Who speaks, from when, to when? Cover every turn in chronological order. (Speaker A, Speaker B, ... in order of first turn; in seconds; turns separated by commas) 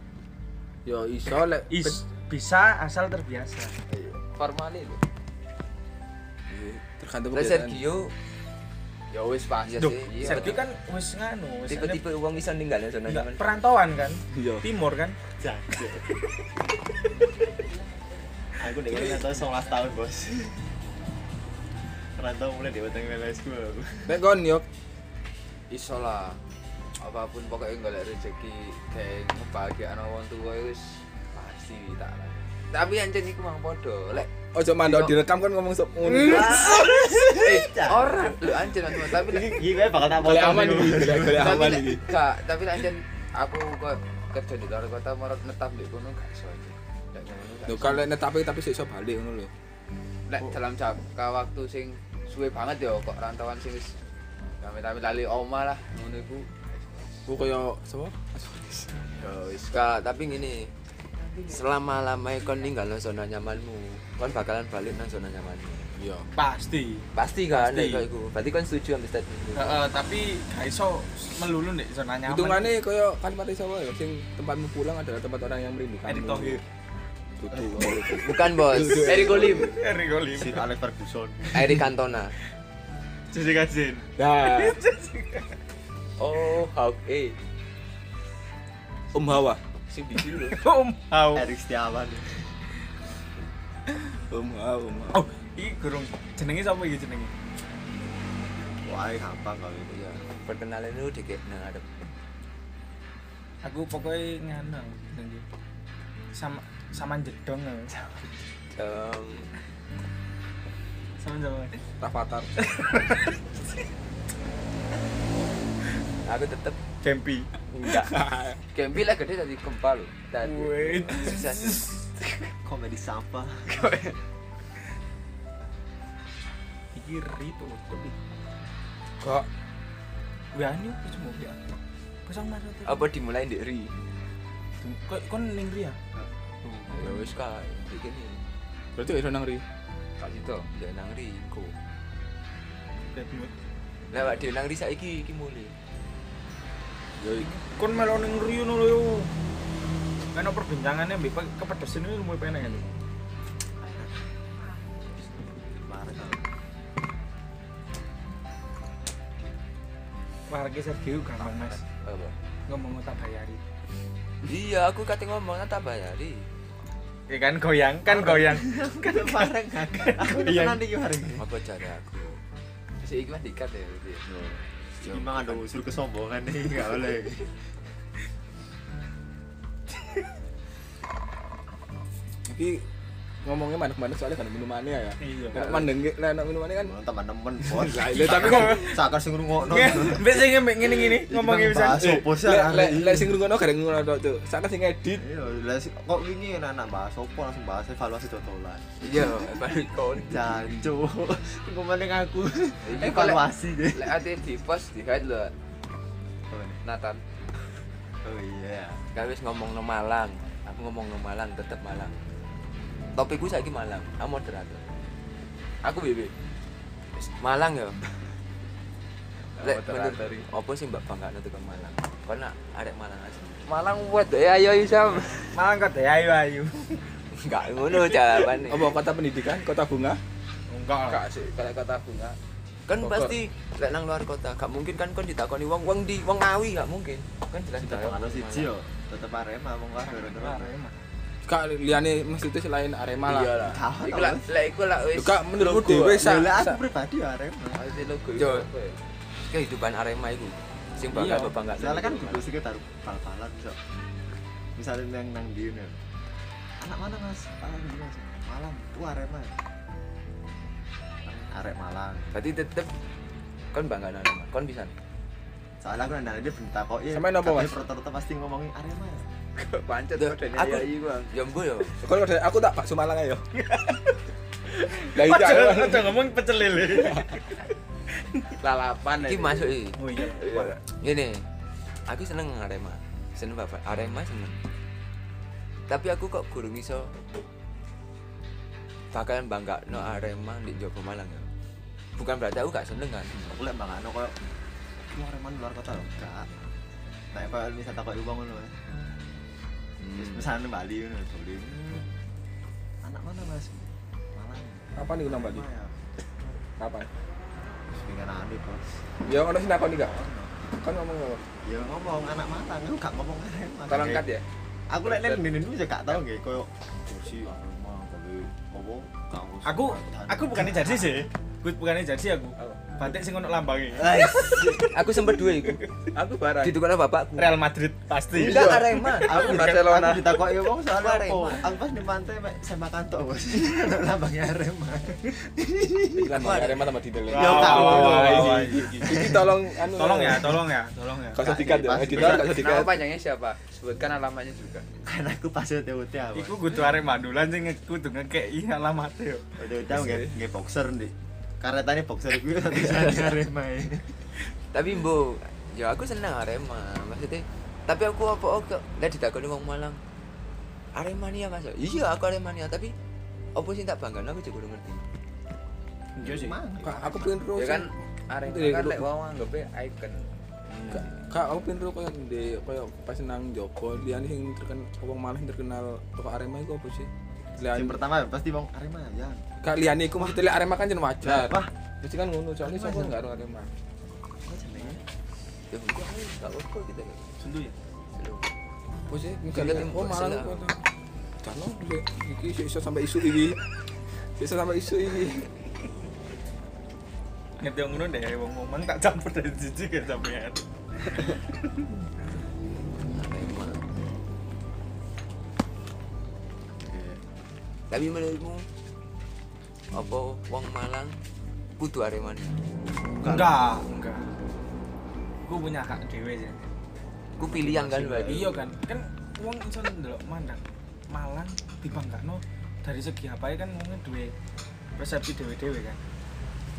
Speaker A: 0.8-2.0, Speaker B: 1.3-3.8, Speaker C: 3.9-5.0, Speaker A: 6.5-7.8, Speaker D: 7.3-8.1, Speaker C: 9.1-10.7, Speaker D: 9.7-10.6, Speaker B: 9.7-12.0, Speaker D: 11.7-13.6, Speaker B: 13.1-15.2, Speaker A: 14.3-14.7, Speaker E: 15.4-16.0, Speaker E: 18.6-20.6, Speaker E: 22.2-24.2, Speaker A: 24.1-24.6, Speaker C: 25.7-26.4, Speaker C: 27.0-35.2, Speaker A: 34.5-36.9, Speaker E: 36.1-41.7, Speaker C: 36.4-39.6, Speaker A: 39.2-42.1, Speaker C: 41.4-48.0, Speaker A: 47.7-49.5, Speaker C: 50.3-54.0, Speaker C: 54.6-56.5, Speaker A: 57.3-59.1, Speaker C: 59.2-59.9, Speaker D: 59.7-60.7, Speaker D: 61.5-65.9, Speaker A: 66.0-66.3, Speaker B: 66.3-68.1, Speaker D: 67.2-69.8, Speaker B: 69.5-72.8, Speaker A: 72.3-76.6, Speaker B: 76.1-76.6, Speaker A: 77.4-79.8, Speaker E: 77.7-78.0, Speaker D: 77.8-79.7, Speaker C: 78.9-79.8, Speaker B: 79.5-80.7, Speaker E: 80.3-81.8, Speaker D: 81.5-82.4, Speaker B: 83.3-85.5, Speaker A: 84.2-84.8, Speaker D: 86.2-87.4, Speaker A: 89.1-89.6, Speaker D: 89.9-90.5, Speaker B: 90.4-91.5, Speaker E: 91.3-92.5, Speaker A: 93.9-95.2, Speaker B: 95.1-97.3, Speaker E: 98.8-100.0, Speaker D: 99.9-101.9, Speaker B: 103.6-105.4, Speaker B: 106.3-108.0, Speaker D: 108.7-109.5, Speaker B: 111.2-111.8, Speaker A: 112.0-112.5, Speaker B: 112.6-113.4, Speaker D: 116.3-116.8, Speaker B: 117.0-117.5, Speaker A: 117.8-118.6, Speaker C: 118.7-120.3, Speaker D: 120.3-122.0, Speaker B: 120.4-121.9, Speaker E: 122.6-123.9, Speaker D: 123.8-124.1, Speaker B: 126.9-128.2, Speaker A: 129.2-129.5, Speaker B: 130.5-131.6, Speaker B: 132.3-133.1, Speaker D: 132.8-133.9, Speaker B: 134.8-136.0, Speaker B: 136.6-137.0, Speaker D: 136.9-138.4, Speaker A: 139.0-139.6, Speaker C: 140.2-140.7, Speaker D: 140.7-141.7, Speaker B: 143.1-143.5, Speaker D: 144.1-145.7, Speaker A: 147.2-147.5, Speaker B: 147.4-149.3, Speaker B: 150.3-152.9, Speaker E: 153.8-154.3, Speaker E: 155.5-156.5, Speaker B: 160.5-161.8, Speaker D: 161.5-162.3, Speaker B: 162.7-163.6, Speaker D: 164.4-166.4, Speaker B: 167.3-170.8, Speaker E: 168.1-171.4, Speaker D: 171.4-172.4, Speaker C: 173.0-174.2, Speaker E: 174.2-177.5, Speaker D: 175.0-175.6, Speaker A: 182.5-182.8, Speaker A: 183.4-186.9, Speaker B: 185.2-185.9, Speaker E: 186.8-193.4, Speaker A: 187.6-189.0, Speaker B: 188.2-189.0, Speaker B: 189.6-192.3, Speaker A: 192.1-195.2, Speaker E: 195.2-199.3, Speaker D: 199.0-200.9, Speaker E: 200.3-204.2, Speaker C: 202.8-205.5, Speaker E: 206.5-206.8, Speaker C: 206.8-207.2, Speaker E: 208.2-209.0, Speaker D: 209.1-212.1, Speaker D: 213.2-214.8, Speaker C: 215.8-216.3, Speaker D: 217.2-218.0, Speaker A: 219.6-220.5, Speaker D: 219.6-223.7, Speaker C: 223.7-225.6, Speaker B: 225.5-227.0, Speaker D: 227.3-228.9, Speaker A: 228.6-230.2, Speaker B: 230.7-231.2, Speaker C: 231.1-232.4, Speaker D: 232.9-238.7, Speaker A: 233.0-233.4, Speaker E: 237.8-240.7, Speaker B: 240.1-241.0, Speaker A: 241.5-243.8, Speaker E: 243.6-244.5, Speaker C: 244.0-245.1, Speaker D: 245.0-246.2, Speaker A: 245.1-246.8, Speaker E: 246.2-247.8, Speaker C: 247.7-249.0, Speaker D: 248.4-248.7, Speaker D: 249.5-252.5, Speaker A: 251.1-251.6, Speaker E: 251.7-253.8, Speaker E: 254.8-256.0, Speaker E: 256.8-259.6, Speaker E: 261.2-262.3, Speaker D: 262.3-262.9, Speaker D: 263.7-264.9, Speaker E: 265.8-269.3, Speaker A: 267.1-267.8, Speaker C: 269.6-271.3, Speaker D: 270.2-271.9, Speaker A: 272.0-273.5, Speaker B: 273.6-274.0, Speaker B: 274.8-277.6, Speaker A: 274.9-276.2, Speaker A: 277.0-277.4, Speaker C: 278.6-280.8, Speaker D: 279.2-280.0, Speaker B: 280.0-280.8, Speaker D: 280.5-281.4, Speaker D: 282.1-284.6, Speaker D: 285.9-287.1, Speaker D: 289.1-291.5, Speaker D: 292.2-293.4, Speaker E: 293.4-294.3, Speaker E: 295.1-296.5, Speaker E: 297.3-298.8, Speaker E: 300.1-302.1, Speaker E: 303.0-305.9, Speaker A: 305.0-305.6, Speaker A: 306.8-307.1, Speaker E: 307.9-308.9, Speaker A: 309.3-310.1, Speaker E: 310.0-310.6, Speaker A: 310.8-311.4, Speaker E: 311.6-314.3, Speaker A: 313.9-314.4, Speaker E: 314.9-321.3, Speaker C: 315.1-315.4, Speaker B: 319.6-325.9, Speaker D: 324.0-325.9, Speaker A: 326.1-326.8, Speaker D: 326.6-327.6, Speaker B: 327.4-329.0, Speaker D: 328.4-331.6, Speaker A: 328.5-329.1, Speaker E: 328.5-336.4, Speaker A: 336.1-340.6, Speaker D: 336.3-336.8, Speaker B: 337.3-341.6, Speaker E: 337.3-339.5, Speaker A: 341.3-343.0, Speaker E: 341.4-342.6, Speaker B: 342.1-342.5, Speaker C: 342.3-344.9, Speaker E: 345.1-346.7, Speaker B: 346.4-349.4, Speaker E: 349.6-354.2, Speaker A: 350.0-350.3, Speaker D: 354.7-360.0, Speaker D: 360.9-362.9, Speaker D: 363.6-365.0, Speaker B: 366.2-366.6, Speaker E: 366.2-367.5, Speaker A: 366.8-367.9, Speaker C: 367.6-370.3, Speaker A: 368.4-369.1, Speaker E: 370.7-371.1, Speaker A: 370.9-378.0, Speaker E: 377.7-379.4, Speaker A: 379.6-383.7, Speaker E: 381.2-381.7, Speaker E: 382.6-383.2, Speaker E: 384.4-385.0, Speaker D: 385.7-387.4, Speaker B: 387.4-387.8, Speaker D: 388.1-388.5, Speaker A: 389.1-390.8, Speaker D: 389.5-390.6, Speaker A: 391.4-393.7, Speaker A: 394.4-395.6, Speaker B: 397.6-400.6, Speaker B: 401.2-401.6, Speaker D: 403.1-403.8, Speaker E: 406.7-407.2, Speaker D: 407.9-408.6, Speaker D: 409.9-411.2, Speaker D: 411.8-412.6, Speaker E: 413.2-413.6, Speaker B: 413.2-414.3, Speaker B: 415.5-416.7, Speaker D: 417.4-418.6, Speaker E: 417.4-418.6, Speaker B: 418.2-424.3, Speaker B: 425.0-426.0